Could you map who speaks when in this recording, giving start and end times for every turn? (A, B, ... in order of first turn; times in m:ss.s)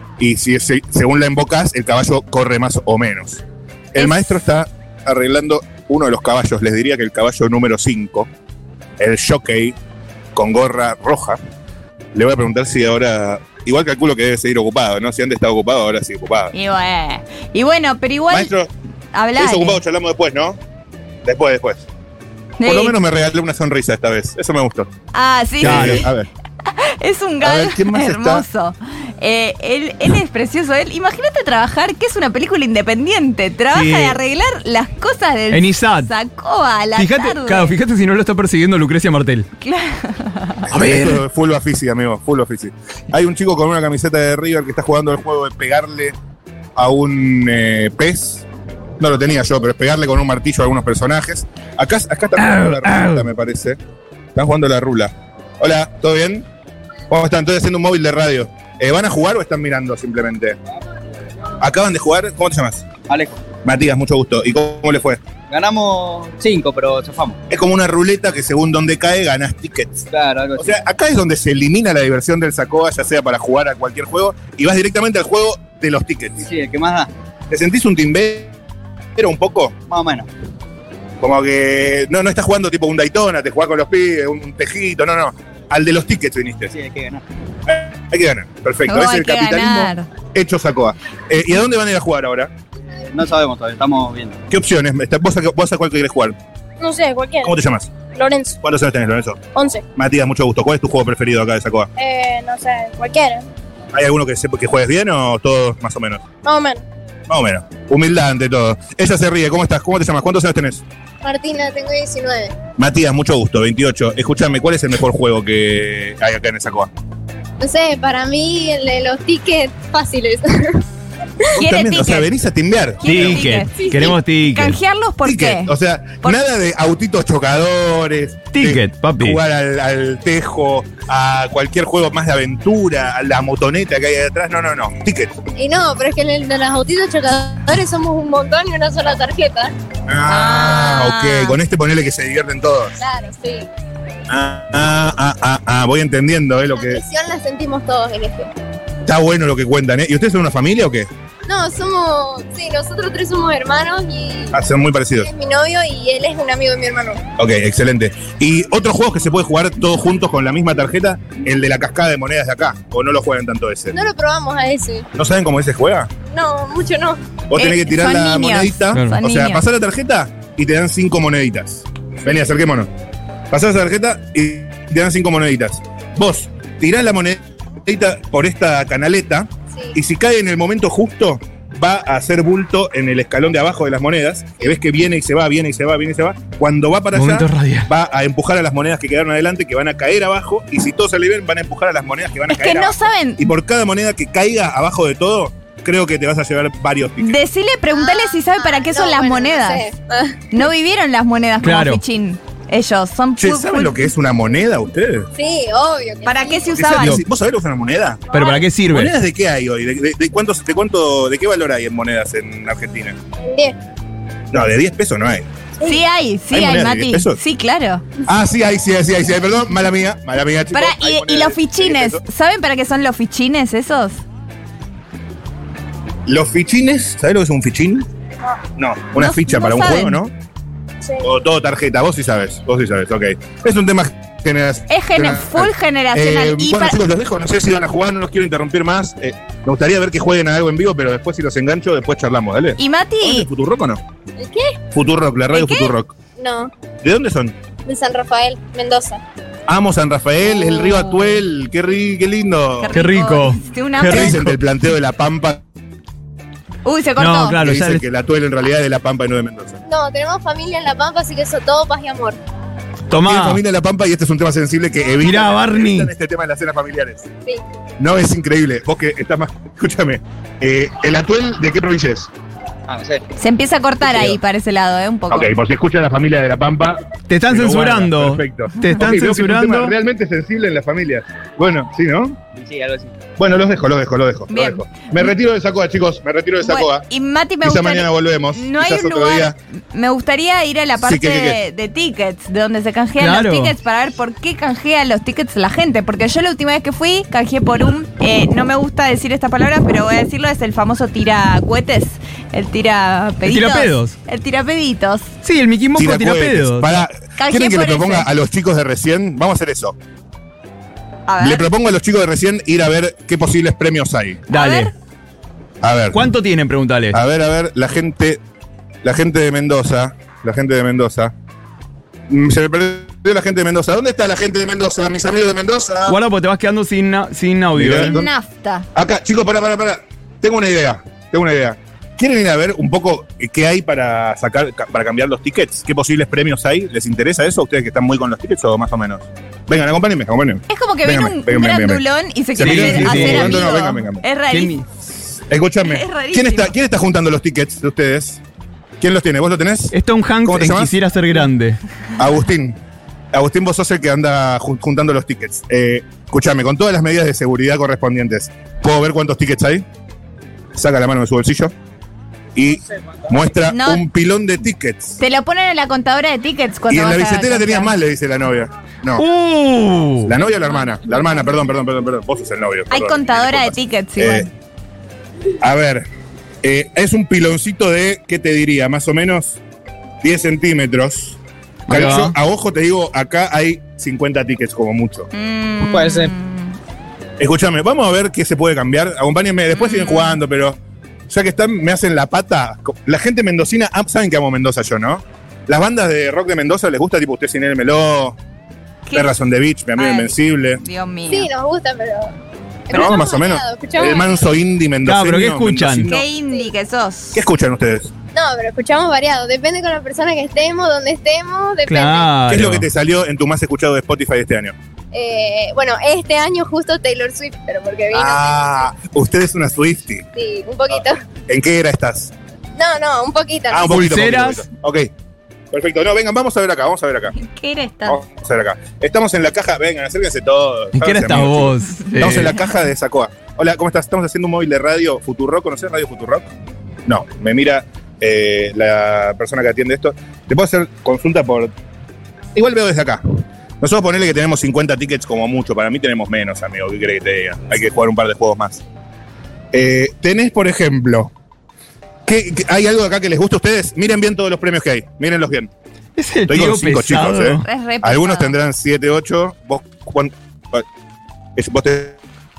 0:00.2-0:08.3 A
0:04.0-0:04.4 B
0:09.0-0:09.8 A
0:10.3-0:11.4 A
0:12.1-0:16.5 A
0:16.5-0:18.5 B
0:18.3-0:18.7 A
0:19.1-0:19.8 B
0:19.4-0:20.6 A
0:21.2-0:21.8 A
0:22.6-0:23.0 B
0:22.6-0:24.9 A
0:25.1-0:26.1 B
0:25.6-0:26.3 A
0:25.6-0:26.1 C
0:26.7-0:37.8 B
0:27.4-0:28.4 A
0:33.7-0:34.2 C
0:35.5-0:36.1 C
0:37.0-0:39.4 C
0:39.6-0:40.7 B
0:40.7-0:46.2 A
0:40.7-0:41.2 C
0:46.8-0:48.4 A
0:49.0-0:53.8 A
0:52.4-0:53.3 C
0:54.3-0:56.5 A
0:57.1-1:00.6 A
1:01.6-1:02.8 A
1:03.1-1:03.4 D
1:03.6-1:05.2 A
1:05.5-1:07.4 D
1:07.5-1:10.0 A
1:10.1-1:10.8 D
1:10.6-1:16.5 A
1:16.4-1:17.1 D
1:17.5-1:18.5 A
1:19.2-1:19.7 A
1:19.9-1:20.3 D
1:21.2-1:26.7 A
1:26.7-1:27.2 D
1:27.7-1:32.5 A
1:28.9-1:30.1 B
1:33.1-1:34.4 D
1:34.5-1:36.4 A
1:36.8-1:37.5 E
1:37.4-1:37.9 A
1:38.1-1:38.6 E
1:38.6-1:39.4 A
1:39.5-1:39.8 E
1:39.9-1:41.9 A
1:42.0-1:43.5 E
1:43.9-1:46.2 A
1:46.4-1:46.8 E
1:47.3-1:50.8 A
1:51.2-1:52.5 E
1:52.8-1:56.9 A
1:57.6-2:00.8 E
2:01.5-2:02.3 B
2:01.6-2:04.0 A
2:03.0-2:06.4 B
2:03.0-2:04.8 C
2:03.8-2:04.1 E
2:05.2-2:15.3 A
2:08.5-2:09.4 C
2:15.6-2:19.7 E
2:20.1-2:23.0 A
2:20.3-2:21.6 B
2:23.0-2:23.7 E
2:24.3-2:27.0 A
2:26.7-2:28.5 E
2:29.0-2:31.1 A
2:31.5-2:34.6 E
2:34.5-2:35.3 A
2:35.2-2:37.2 E
2:37.4-2:43.9 A
2:43.9-2:45.1 E
2:45.1-2:46.1 A
2:46.3-2:47.2 E
2:47.5-2:52.9 A
2:47.5-2:49.6 B
2:53.5-3:17.4 A
3:07.1-3:07.9 C
3:12.5-3:13.5 B
3:17.2-3:19.8 B
3:17.9-3:20.4 E
3:20.5-3:24.1 B
3:21.6-3:22.0 C
3:23.4-3:25.3 A
3:25.4-3:26.9 E
3:26.2-3:27.2 B
3:26.7-3:28.3 A
3:28.3-3:29.1 C
3:28.9-3:33.2 A
3:33.4-3:33.8 E
3:34.5-3:35.5 A
3:35.8-3:38.0 B
3:36.5-3:37.4 A
3:38.2-3:42.2 A
3:40.7-3:44.2 B
3:46.3-3:48.0 A
3:48.8-3:50.3 A
3:49.2-3:50.2 B
3:51.2-4:04.0 A
3:54.9-3:57.0 B
4:02.8-4:03.5 B
4:04.4-4:04.8 E
4:04.9-4:06.1 A
4:05.5-4:05.9 B
4:06.4-4:06.7 E
4:07.0-4:07.6 A
4:07.8-4:09.2 E
4:09.7-4:12.9 A
4:10.5-4:11.1 B
4:12.8-4:14.4 B
4:12.9-4:14.6 C
4:14.0-4:15.6 A
4:16.8-4:17.6 B
4:17.2-4:18.0 C
4:17.6-4:19.8 A
4:19.9-4:22.4 E
4:23.1-4:23.6 C
4:23.2-4:27.3 A
4:25.2-4:26.1 C
4:28.0-4:32.3 A
4:32.9-4:33.2 D
4:33.4-4:35.5 B
4:34.0-4:34.4 A
4:35.3-4:42.4 A
4:37.3-4:39.9 C
4:42.5-4:43.1 D
4:43.4-4:47.1 A
4:44.5-4:45.3 B
4:46.6-5:05.3 B
4:47.6-4:49.6 A
4:51.0-4:51.6 A
4:53.2-4:53.7 C
5:03.4-5:04.2 C
5:05.4-5:07.0 C
5:05.9-5:09.9 A
5:07.4-5:08.3 B
5:11.2-5:11.7 B
5:11.4-5:14.4 A
5:14.5-5:14.9 C
5:14.5-5:14.9 B
5:15.8-5:16.2 A
5:16.1-5:17.2 C
5:17.1-5:18.4 A
5:19.0-5:21.3 A
5:22.3-5:26.2 A
5:26.1-5:28.2 C
5:27.7-5:28.3 A
5:28.0-5:28.8 B
5:28.9-5:44.2 A
5:40.7-5:44.7 B
5:42.6-5:43.7 C
5:44.5-5:44.8 C
5:45.5-5:48.4 A
5:45.8-5:46.7 B
5:49.0-5:50.9 A
5:49.9-5:51.8 C
5:52.2-5:52.8 A
5:53.3-5:59.8 A
6:00.7-6:01.7 A
6:02.5-6:05.2 A
6:03.7-6:04.0 B
6:05.2-6:07.9 B
6:06.9-6:09.2 A
6:09.2-6:10.3 C
6:10.2-6:14.5 A
6:12.9-6:14.5 B
6:15.6-6:16.0 A
6:16.6-6:19.6 A
6:20.2-6:21.4 A
6:21.9-6:22.3 C
6:21.9-6:25.3 A
6:25.3-6:26.7 B
6:25.8-6:26.3 D
6:27.4-6:30.8 A
6:29.7-6:30.4 B
6:31.3-6:38.4 A
6:39.0-6:39.4 B
6:39.1-6:40.8 A
6:40.0-6:41.5 B
6:41.3-6:42.3 E
6:42.9-6:44.4 E
6:42.9-6:46.2 A
6:45.0-6:46.1 C
6:46.0-6:47.4 B
6:47.3-6:48.1 A
6:48.3-6:52.3 E
6:51.8-6:52.9 C
6:52.5-6:54.7 A
6:55.1-6:58.5 E
6:58.1-7:00.2 A
7:00.4-7:01.2 E
7:01.5-7:02.3 A
7:02.8-7:04.0 E
7:03.7-7:05.1 A
7:03.9-7:04.6 C
7:05.7-7:07.3 A
7:07.3-7:08.2 B
7:08.0-7:16.4 A
7:10.9-7:12.5 C
7:12.1-7:12.7 B
7:17.1-7:21.7 A
7:22.5-7:23.2 A
7:23.8-7:28.8 A
7:29.7-7:31.3 A
7:32.2-7:35.7 A
7:36.2-7:37.6 C
7:36.5-7:40.8 A
7:37.6-7:38.5 B
7:41.6-7:42.2 A